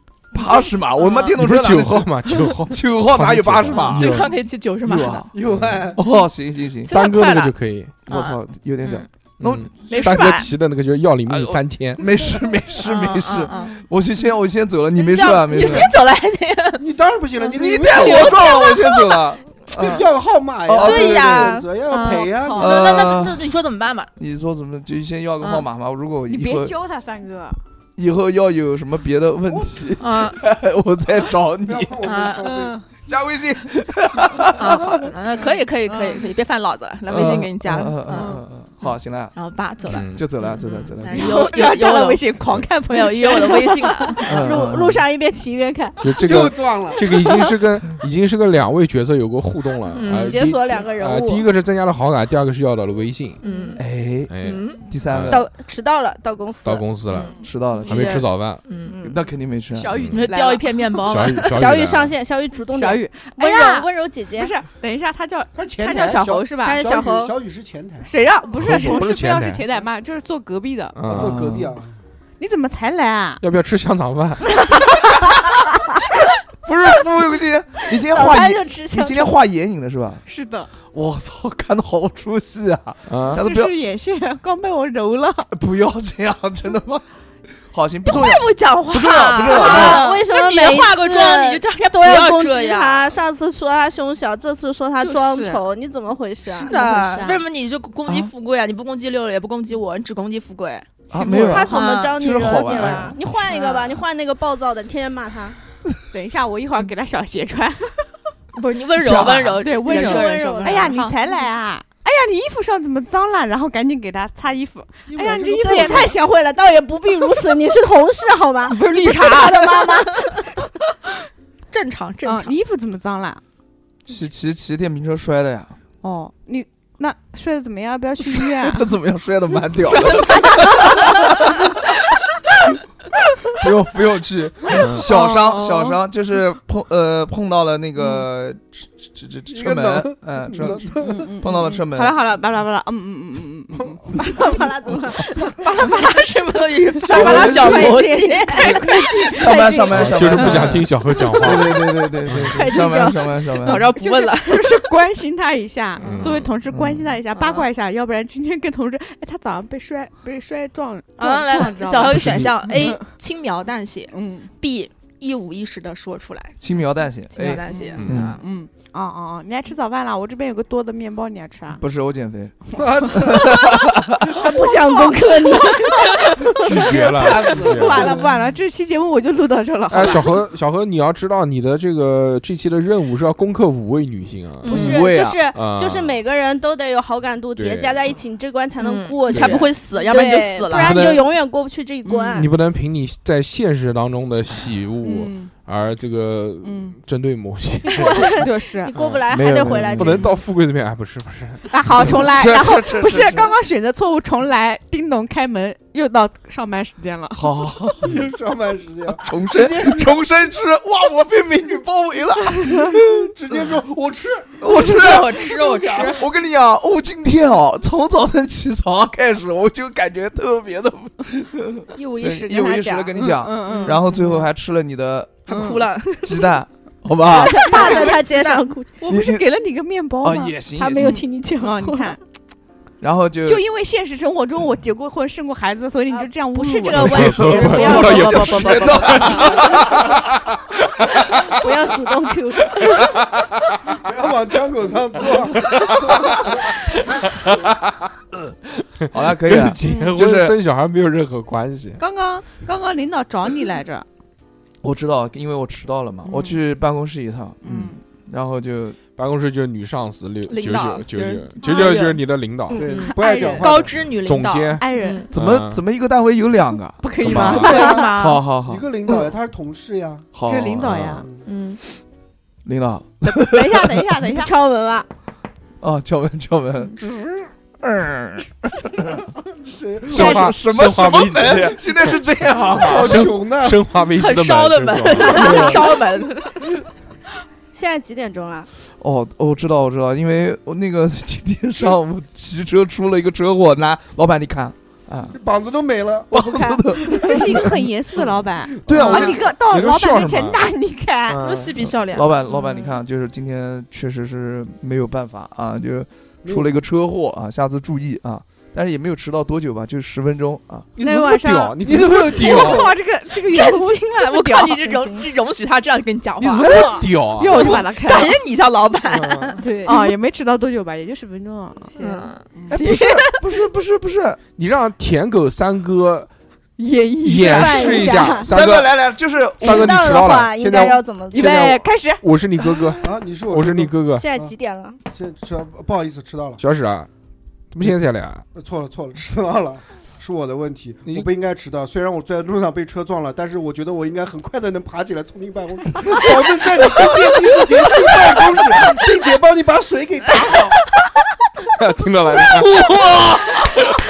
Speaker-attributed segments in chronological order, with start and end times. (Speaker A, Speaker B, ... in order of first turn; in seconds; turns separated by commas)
Speaker A: 0.3-4.3, Speaker B: 0.3-1.3, Speaker C: 1.3-4.3, Speaker B: 3.7-5.3, Speaker A: 4.8-5.3, Speaker D: 5.3-6.0, Speaker C: 5.4-5.8, Speaker A: 6.0-6.9, Speaker B: 6.8-7.5, Speaker C: 6.8-8.0, Speaker A: 8.1-10.3, Speaker B: 8.1-9.1, Speaker C: 9.4-12.0, Speaker B: 9.8-10.5, Speaker A: 11.3-15.9, Speaker B: 12.8-13.8, Speaker B: 15.0-16.8, Speaker D: 16.8-18.6, Speaker B: 17.4-19.2, Speaker A: 17.5-20.0, Speaker D: 19.8-23.0, Speaker A: 20.6-21.6, Speaker B: 20.8-24.1, Speaker A: 22.6-23.4, Speaker A: 24.2-26.7, Speaker B: 25.4-25.6, Speaker E: 26.3-27.6, Speaker A: 28.0-31.9, Speaker D: 29.5-29.8, Speaker B: 30.0-30.4, Speaker D: 31.6-32.8, Speaker B: 32.0-32.4, Speaker E: 32.4-32.9, Speaker A: 32.9-35.1, Speaker B: 34.5-38.4, Speaker E: 35.4-36.3, Speaker A: 37.1-39.3, Speaker E: 38.1-38.9, Speaker B: 39.3-42.4, Speaker C: 39.9-40.3, Speaker A: 40.1-41.4, Speaker E: 40.4-44.3, Speaker B: 42.9-44.3, Speaker F: 44.2-46.2, Speaker A: 44.2-45.0, Speaker C: 46.0-53.4, Speaker D: 46.2-47.0, Speaker B: 49.9-50.4, Speaker F: 50.1-51.5, Speaker B: 53.4-53.8, Speaker E: 53.4-53.8, Speaker A: 53.8-55.4, Speaker C: 54.3-55.5, Speaker B: 54.4-54.8, Speaker F: 55.2-56.9, Speaker C: 56.6-58.6, Speaker B: 57.1-58.9, Speaker A: 57.4-58.2, Speaker F: 58.9-59.2, Speaker A: 59.0-60.0, Speaker E: 59.7-61.2, Speaker C: 59.9-60.2, Speaker B: 60.1-61.5, Speaker C: 61.0-62.1, Speaker F: 61.4-64.5, Speaker E: 62.7-66.9, Speaker D: 65.5-68.1, Speaker F: 66.6-67.3, Speaker E: 68.0-71.0, Speaker C: 68.6-69.6, Speaker C: 70.9-71.6, Speaker D: 71.1-71.9, Speaker A: 71.1-71.8, Speaker E: 72.4-73.4, Speaker C: 73.4-74.6, Speaker E: 74.7-75.3, Speaker A: 76.6-80.2, Speaker F: 78.1-79.3, Speaker E: 80.2-80.7, Speaker A: 80.8-83.7, Speaker C: 83.1-83.4, Speaker E: 83.3-85.5, Speaker A: 85.5-87.0, Speaker A: 87.7-90.0, Speaker B: 88.0-93.1, Speaker E: 89.3-90.2, Speaker F: 89.5-97.3, Speaker E: 95.0-95.6, Speaker E: 96.5-97.4, Speaker B: 96.5-103.9, Speaker A: 101.1-103.2, Speaker E: 101.1-101.7, Speaker F: 101.4-105.6, Speaker E: 106.1-108.2, Speaker B: 108.5-111.2, Speaker A: 109.0-109.6, Speaker E: 109.5-116.2, Speaker F: 109.9-111.0, Speaker D: 115.1-116.1, Speaker F: 115.6-120.5, Speaker B: 118.7-120.3, Speaker B: 121.7-122.5, Speaker E: 122.2-123.4, Speaker A: 124.0-125.8, Speaker E: 126.0-128.9, Speaker A: 128.2-131.7, Speaker E: 129.8-131.1, Speaker B: 130.0-130.4, Speaker A: 133.5-140.8, Speaker E: 134.7-136.0, Speaker C: 134.8-135.1, Speaker E: 138.0-138.3, Speaker D: 139.5-141.3, Speaker E: 141.0-144.7, Speaker A: 141.4-142.2, Speaker F: 144.1-145.7, Speaker B: 145.6-149.6, Speaker A: 147.1-148.0, Speaker E: 147.1-151.8, Speaker F: 147.2-148.8, Speaker A: 149.3-153.9, Speaker C: 149.9-152.6, Speaker F: 152.5-153.4, Speaker B: 153.6-154.8, Speaker E: 153.6-163.1, Speaker C: 156.0-156.5, Speaker A: 156.7-157.2, Speaker B: 157.3-157.7, Speaker B: 161.2-166.6, Speaker A: 162.1-162.5, Speaker C: 162.2-162.5, Speaker E: 164.1-164.5, Speaker A: 166.6-168.4, Speaker B: 167.2-168.4, Speaker E: 167.6-171.8, Speaker C: 168.0-168.3, Speaker A: 171.8-174.2, Speaker D: 172.8-173.6, Speaker F: 174.3-176.5, Speaker E: 174.4-180.4, Speaker D: 176.6-178.3, Speaker C: 176.6-178.2, Speaker C: 179.9-185.0, Speaker B: 184.6-185.0, Speaker F: 184.7-192.5, Speaker A: 184.7-185.4, Speaker C: 185.5-186.2, Speaker C: 187.6-188.0, Speaker B: 188.8-191.2, Speaker C: 189.3-189.6, Speaker C: 190.7-191.2, Speaker E: 192.0-192.4, Speaker C: 192.3-198.3, Speaker E: 195.0-195.5, Speaker E: 196.6-197.0, Speaker F: 197.8-200.3, Speaker E: 198.3-198.9, Speaker C: 198.9-199.2, Speaker A: 199.3-200.3, Speaker C: 199.9-202.2, Speaker E: 201.7-207.6, Speaker A: 202.0-203.5, Speaker A: 207.3-208.2, Speaker D: 208.0-210.1, Speaker A: 209.2-213.6, Speaker D: 213.0-214.6, Speaker A: 214.6-225.6, Speaker B: 214.7-216.2, Speaker F: 221.9-223.2, Speaker E: 223.1-224.4, Speaker B: 223.7-224.4, Speaker B: 225.5-226.3, Speaker E: 225.5-225.8, Speaker A: 226.1-228.0, Speaker F: 227.2-228.9, Speaker E: 227.3-232.2, Speaker B: 227.5-228.7, Speaker A: 229.1-229.5, Speaker A: 230.2-231.2, Speaker F: 230.7-232.2, Speaker A: 233.0-233.6, Speaker E: 233.4-238.5, Speaker F: 236.1-238.5, Speaker B: 236.7-239.4, Speaker C: 236.9-240.4, Speaker A: 237.9-239.9, Speaker E: 239.1-239.6, Speaker C: 241.0-241.5, Speaker F: 241.2-243.3, Speaker D: 244.0-246.3, Speaker C: 247.4-247.7, Speaker A: 249.1-250.5, Speaker C: 249.1-252.0, Speaker E: 249.8-250.1, Speaker E: 252.0-254.1, Speaker A: 254.8-259.0, Speaker E: 256.2-256.6, Speaker E: 257.6-258.0, Speaker C: 259.1-262.8, Speaker B: 260.5-265.3, Speaker E: 261.6-262.0, Speaker E: 262.7-263.8, Speaker D: 262.7-264.0, Speaker C: 263.9-265.8, Speaker E: 264.8-265.3, Speaker A: 265.3-268.9, Speaker E: 267.0-268.1, Speaker C: 267.2-267.9, Speaker D: 267.3-268.1, Speaker B: 267.4-268.4, Speaker D: 268.6-270.3, Speaker A: 270.3-271.1, Speaker E: 270.4-271.2, Speaker C: 270.9-271.2, Speaker B: 271.4-271.8, Speaker A: 272.6-274.0, Speaker E: 273.2-274.5, Speaker F: 274.3-275.1, Speaker A: 275.8-277.1, Speaker A: 277.8-279.2, Speaker D: 279.6-280.5, Speaker C: 280.1-282.2, Speaker A: 280.1-283.3, Speaker D: 282.8-283.9, Speaker C: 282.8-285.5, Speaker B: 284.1-286.7, Speaker F: 285.2-285.8, Speaker A: 285.3-285.8, Speaker F: 287.7-288.7, Speaker A: 289.0-295.4, Speaker D: 295.3-296.4, Speaker A: 296.3-297.7, Speaker F: 296.3-296.8, Speaker D: 296.9-297.4, Speaker E: 297.0-301.4, Speaker A: 298.8-299.3, Speaker B: 299.0-299.3, Speaker C: 299.1-300.7, Speaker C: 301.3-301.7, Speaker B: 301.4-302.4, Speaker A: 301.9-310.9, Speaker E: 302.5-303.0, Speaker D: 306.4-306.7, Speaker C: 311.0-312.9, Speaker F: 311.0-311.8, Speaker D: 311.8-312.9, Speaker E: 312.3-315.2, Speaker B: 313.4-317.0, Speaker C: 316.4-317.8, Speaker E: 316.6-318.4, Speaker B: 317.6-319.6, Speaker C: 319.1-319.5, Speaker F: 319.6-320.1, Speaker E: 319.8-322.8, Speaker B: 322.0-323.4, Speaker A: 322.7-324.4, Speaker C: 324.6-326.3, Speaker E: 326.8-328.3, Speaker C: 327.2-328.9, Speaker F: 327.3-328.5, Speaker A: 328.4-330.1, Speaker C: 329.6-334.2, Speaker F: 329.6-331.8, Speaker E: 331.3-333.0, Speaker D: 333.0-334.5, Speaker F: 334.1-335.0, Speaker D: 335.1-336.6, Speaker C: 336.6-337.1, Speaker C: 337.7-338.4, Speaker D: 338.5-350.8, Speaker C: 351.7-352.7, Speaker A: 352.5-353.7